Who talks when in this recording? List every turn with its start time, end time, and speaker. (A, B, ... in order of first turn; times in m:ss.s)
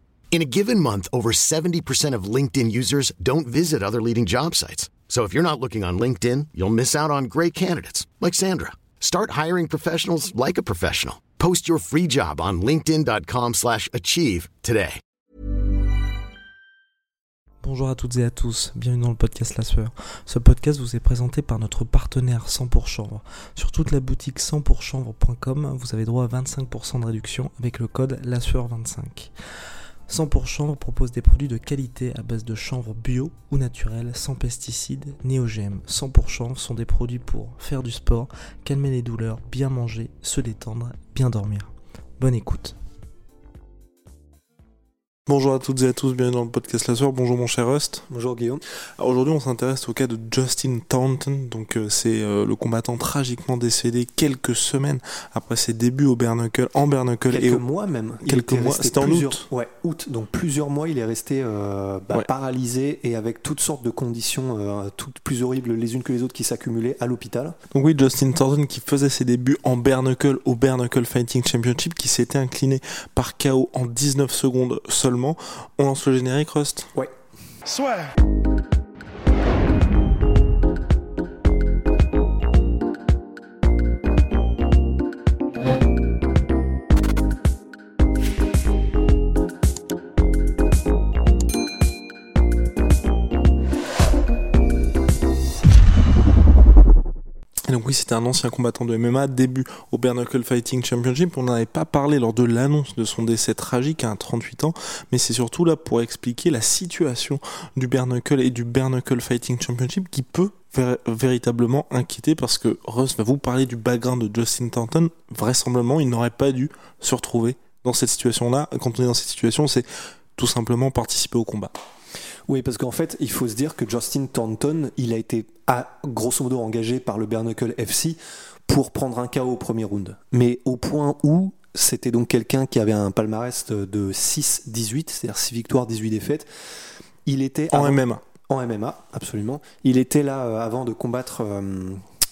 0:00.3-0:15.0 A
0:17.6-0:29.3 B
0:30.1-0:42.8 B
0:45.3-0:48.1 B
0:48.1-0:48.6 C
0:49.0-0:57.6 B
0:57.3-1:07.6 C
0:58.2-0:59.5 B
1:07.7-1:16.9 B
1:37.7-1:59.8 B
2:00.4-2:01.7 B
2:02.5-2:16.5 C
2:17.3-2:22.0 C
2:17.7-2:18.2 B